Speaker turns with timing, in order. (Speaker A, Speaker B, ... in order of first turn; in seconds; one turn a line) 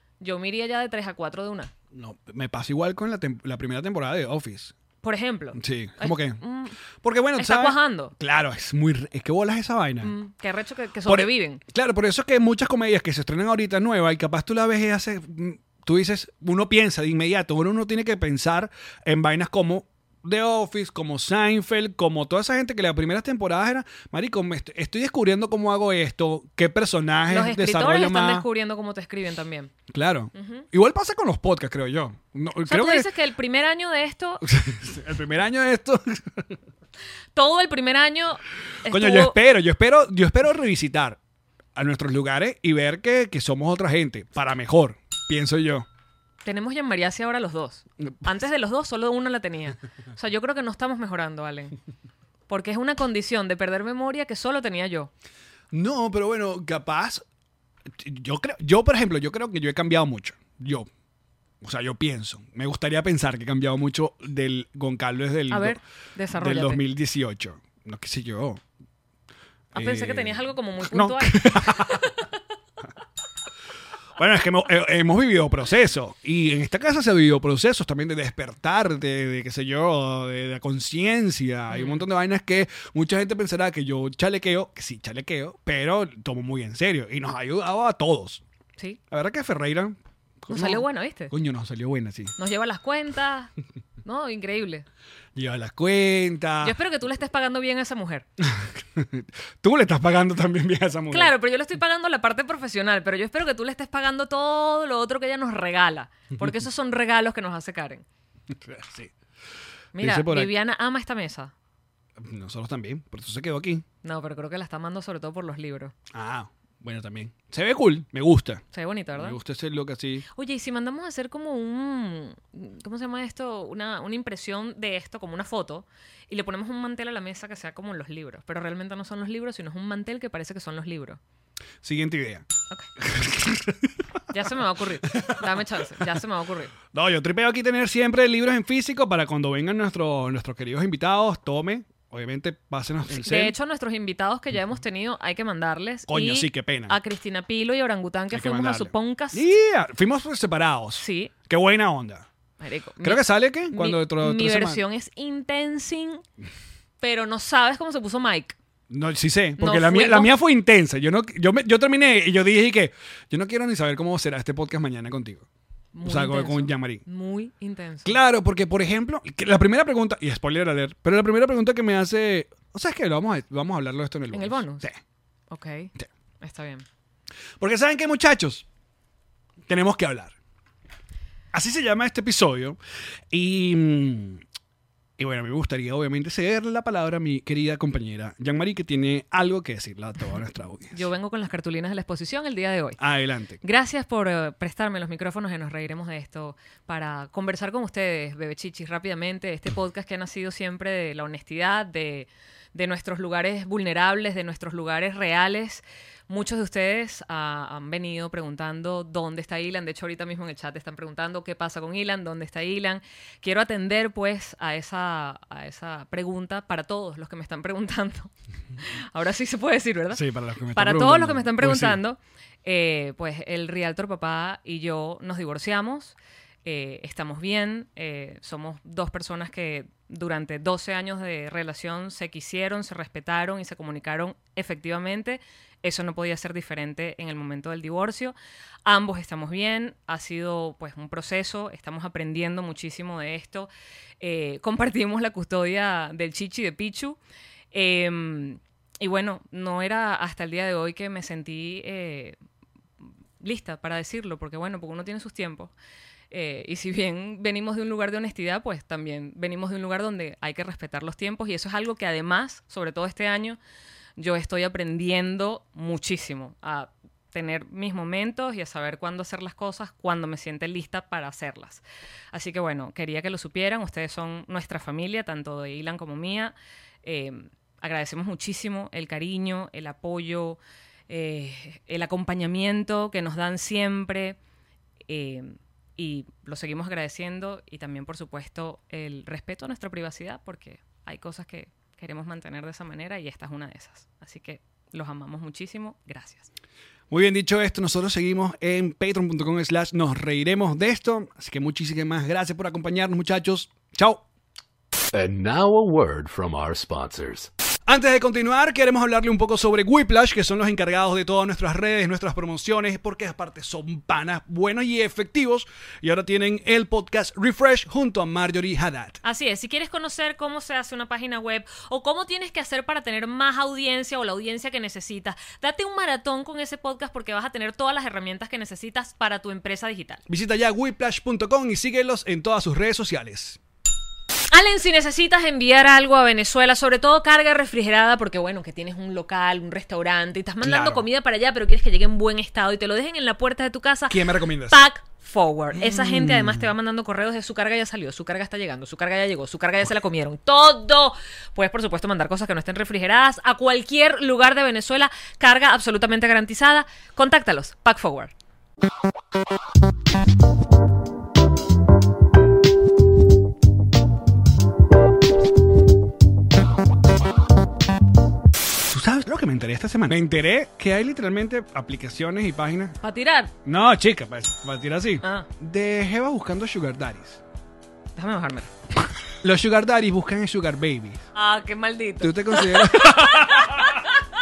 Speaker A: 0.2-1.7
Speaker B: 1.9-4.7
Speaker A: 5.0-6.8
Speaker B: 5.5-6.4
Speaker B: 7.0-10.2
Speaker A: 7.4-8.1
Speaker A: 10.0-11.6
Speaker B: 11.1-28.5
Speaker A: 27.3-29.7
Speaker B: 29.9-33.1
Speaker A: 30.4-30.6
Speaker A: 32.7-34.4
Speaker B: 34.4-36.5
Speaker A: 37.4-39.4
Speaker B: 38.9-41.2
Speaker B: 41.8-45.9
Speaker A: 46.5-51.8
Speaker A: 52.5-55.1
Speaker B: 55.7-57.2
Speaker B: 57.9-60.9
Speaker B: 61.6-65.8
Speaker A: 65.5-66.8
Speaker B: 66.3-68.6
Speaker B: 69.7-72.1
Speaker A: 69.7-72.3
Speaker B: 74.2-88.4
Speaker A: 81.7-82.0
Speaker B: 89.1-92.3
Speaker A: 90.5-91.3
Speaker A: 92.4-93.5
Speaker A: 94.0-94.9
Speaker B: 95.3-96.8
Speaker A: 96.6-98.3
Speaker B: 98.4-101.3
Speaker A: 101.1-108.0
Speaker B: 108.5-109.1
Speaker A: 110.0-111.5
Speaker B: 110.0-110.5
Speaker B: 112.2-113.8
Speaker A: 114.0-115.9
Speaker B: 116.1-118.6
Speaker A: 118.7-119.4
Speaker B: 119.2-120.2
Speaker A: 120.3-131.2
Speaker B: 131.8-132.4
Speaker B: 133.0-133.9
Speaker A: 134.3-136.7
Speaker B: 135.1-136.1
Speaker B: 136.9-143.6
Speaker A: 143.1-149.5
Speaker B: 146.1-147.0
Speaker B: 148.3-152.3
Speaker A: 151.0-151.3
Speaker A: 152.6-156.2
Speaker B: 153.0-154.8
Speaker A: 157.0-158.6
Speaker B: 158.9-165.4
Speaker A: 159.6-160.3
Speaker A: 165.9-168.2
Speaker B: 166.0-167.0
Speaker B: 168.0-175.0
Speaker A: 174.3-174.9
Speaker A: 175.5-176.8
Speaker B: 177.6-178.7
Speaker B: 179.7-180.3
Speaker B: 181.5-182.8
Speaker B: 183.3-184.4
Speaker B: 185.2-191.0
Speaker A: 190.9-193.0
Speaker B: 193.0-193.6
Speaker A: 193.6-220.2
Speaker B: 220.1-222.0
Speaker A: 220.8-243.7
Speaker A: 244.2-247.2
Speaker A: 247.7-252.4
Speaker A: 253.4-255.7
Speaker A: 256.3-263.6
Speaker A: 264.2-284.4
Speaker A: 285.1-296.5
Speaker B: 297.1-304.2
Speaker C: 305.1-307.5
Speaker B: 307.9-319.2
Speaker A: 319.2-330.2
Speaker B: 330.3-333.6
Speaker A: 334.5-358.3
Speaker B: 340.6-341.1
Speaker B: 344.1-344.8
Speaker B: 345.7-346.7
Speaker B: 368.9-373.0
Speaker A: 373.0-373.5
Speaker B: 373.7-377.4
Speaker A: 378.2-378.7
Speaker B: 379.4-381.2
Speaker A: 381.4-384.2
Speaker B: 382.2-383.9